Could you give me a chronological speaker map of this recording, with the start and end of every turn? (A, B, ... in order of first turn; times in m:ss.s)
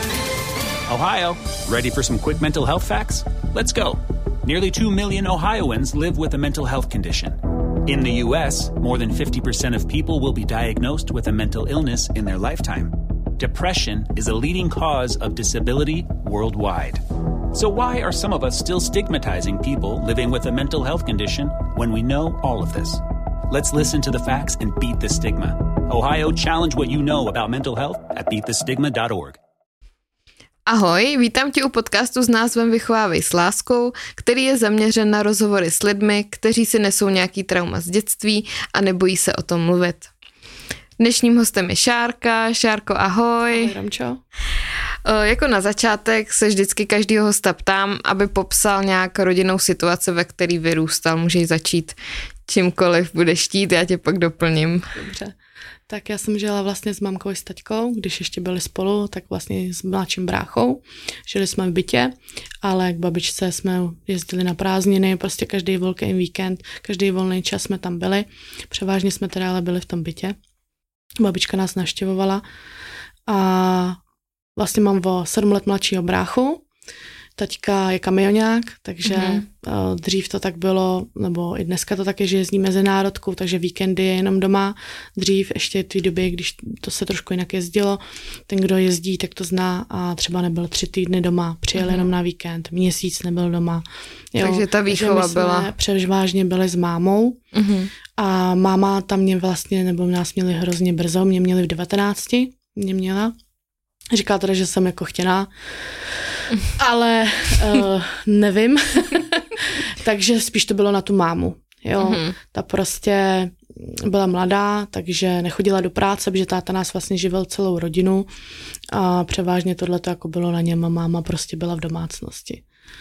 0:00.9-0:29.4 A
0:30.7-0:40.1 B
0:41.0-0:43.7 B
0:43.5-0:44.2 C
0:45.0-0:52.0 B
0:52.5-0:55.0 B
0:55.0-0:55.4 C
0:55.9-1:10.4 C
1:11.2-1:12.4 C
1:13.3-1:14.0 C
1:14.6-1:16.6 C
1:17.4-1:37.4 C
1:19.1-1:19.4 B
1:31.8-1:32.1 B
1:34.4-1:35.7 B
1:37.5-1:37.9 B
1:38.2-1:43.4 C
1:44.1-1:58.3 C
1:52.0-1:52.4 B
1:58.9-2:02.6 C